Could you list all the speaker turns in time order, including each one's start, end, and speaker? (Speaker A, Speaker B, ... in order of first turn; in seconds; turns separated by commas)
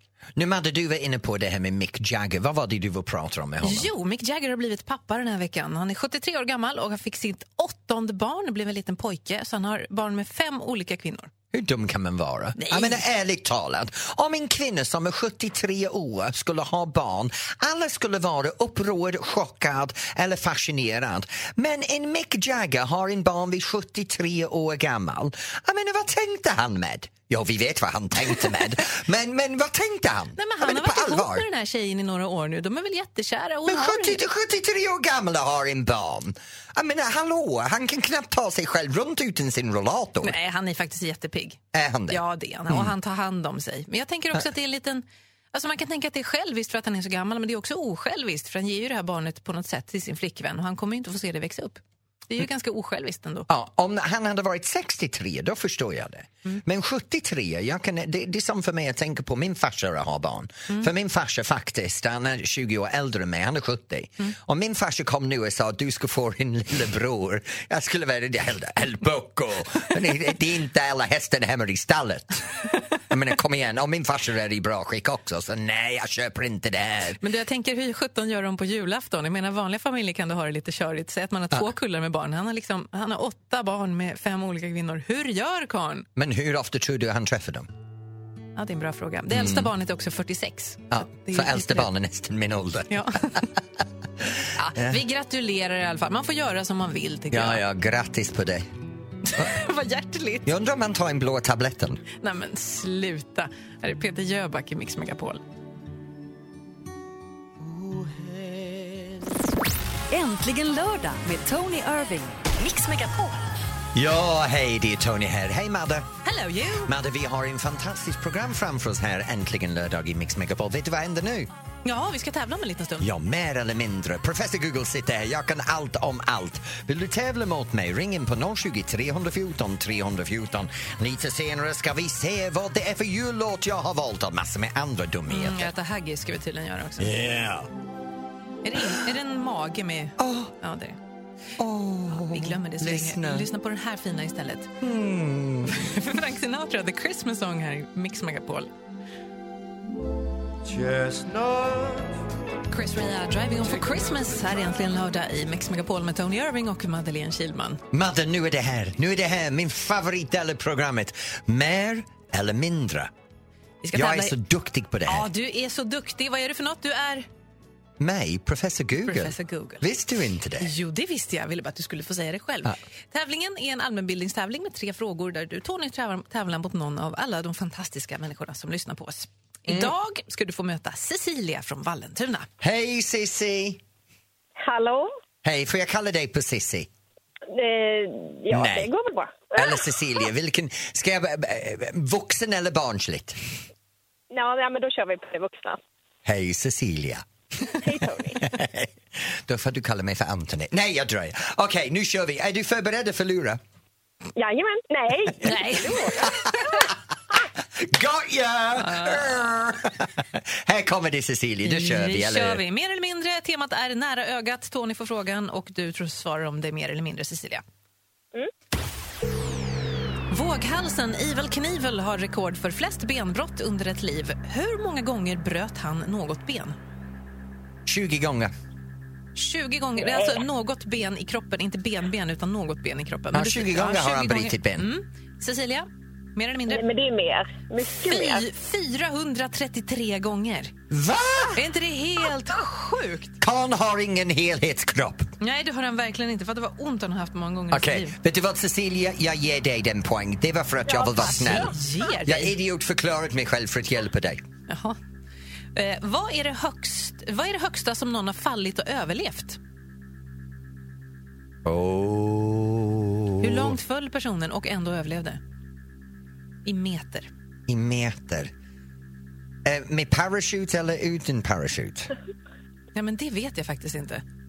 Speaker A: 0.3-3.9, Speaker B: 3.6-11.3, Speaker A: 11.5-31.5, Speaker B: 12.6-13.0, Speaker B: 30.4-34.2, Speaker A: 33.6-40.4, Speaker B: 40.2-53.5, Speaker A: 41.7-42.9, Speaker A: 53.5-72.5, Speaker A: 73.1-77.2, Speaker B: 77.2-86.1, Speaker A: 86.2-87.7, Speaker B: 88.5-91.9, Speaker A: 89.3-89.7, Speaker A: 90.9-93.4, Speaker B: 92.9-93.5, Speaker A: 94.2-95.0, Speaker B: 94.5-97.6, Speaker A: 97.3-98.7, Speaker B: 99.2-100.5, Speaker A: 100.4-102.0, Speaker B: 102.2-105.4, Speaker A: 107.8-108.8, Speaker C: 110.1-113.4, Speaker A: 113.9-116.1, Speaker B: 116.2-116.9, Speaker A: 116.8-121.5, Speaker B: 121.8-123.1, Speaker A: 123.0-135.7, Speaker B: 135.3-137.2, Speaker A: 137.0-137.7, Speaker B: 138.6-141.0, Speaker A: 140.2-140.5, Speaker A: 141.6-143.5, Speaker B: 142.1-144.7, Speaker A: 144.8-145.9, Speaker B: 145.7-148.7, Speaker A: 150.8-151.6, Speaker B: 152.7-157.8, Speaker A: 157.9-163.1, Speaker B: 163.8-164.3, Speaker A: 163.9-165.3, Speaker B: 165.1-167.2, Speaker A: 168.0-170.7, Speaker B: 169.0-169.8, Speaker B: 170.6-182.5, Speaker A: 179.7-179.9, Speaker A: 182.6-183.8, Speaker D: 184.6-185.1, Speaker A: 185.4-186.9, Speaker D: 187.5-189.8, Speaker A: 188.5-188.9, Speaker A: 189.5-193.4, Speaker D: 194.3-195.8, Speaker A: 196.2-197.2, Speaker D: 197.8-198.4, Speaker A: 198.4-203.6, Speaker D: 204.3-206.4, Speaker B: 205.4-206.7, Speaker A: 206.2-206.4, Speaker A: 207.8-212.6, Speaker B: 208.8-209.4, Speaker B: 211.6-217.6, Speaker B: 220.3-226.8, Speaker A: 227.8-228.5, Speaker B: 229.3-236.8, Speaker A: 233.3-234.9, Speaker D: 236.7-238.4, Speaker B: 237.9-240.7, Speaker A: 240.9-241.6, Speaker B: 241.5-243.4, Speaker A: 243.4-245.3, Speaker B: 245.4-248.2, Speaker A: 247.7-254.4, Speaker B: 250.9-252.5, Speaker B: 254.7-255.0, Speaker B: 255.7-259.6, Speaker A: 261.6-263.7, Speaker B: 263.4-265.4, Speaker B: 266.6-267.3, Speaker A: 267.7-268.5, Speaker A: 269.6-272.1, Speaker B: 272.9-274.2